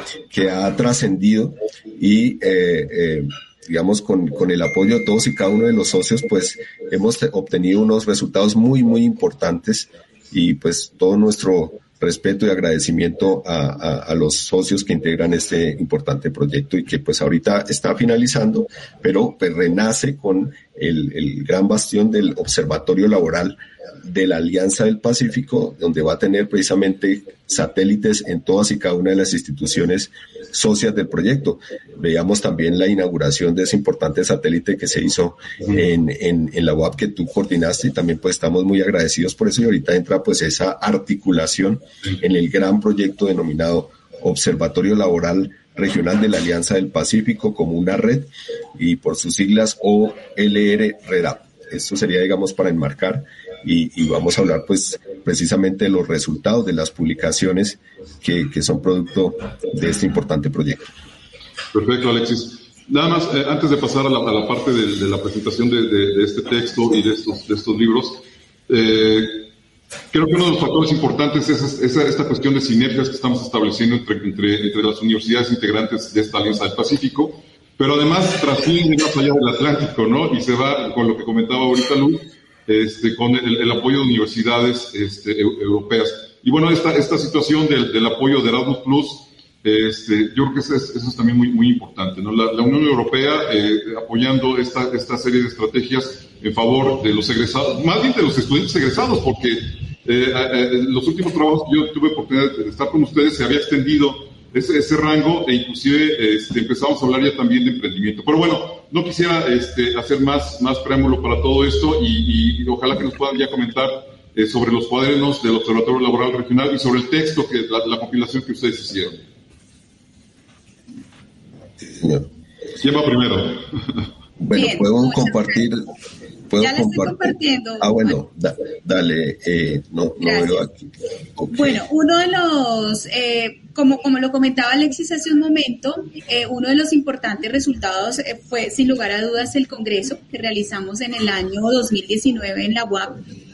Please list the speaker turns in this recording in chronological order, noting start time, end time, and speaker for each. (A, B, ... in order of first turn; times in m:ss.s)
0:00.3-1:00.9 A
1:01.7-1:09.5 B
1:10.1-1:59.2 B
2:02.0-2:02.3 A
2:02.8-2:04.1 B
2:04.4-2:05.8 A
2:04.5-2:05.6 C
2:06.5-2:10.8 A
2:06.6-2:08.2 C
2:10.2-2:10.6 C
2:11.4-2:11.7 A
2:11.5-2:23.2 C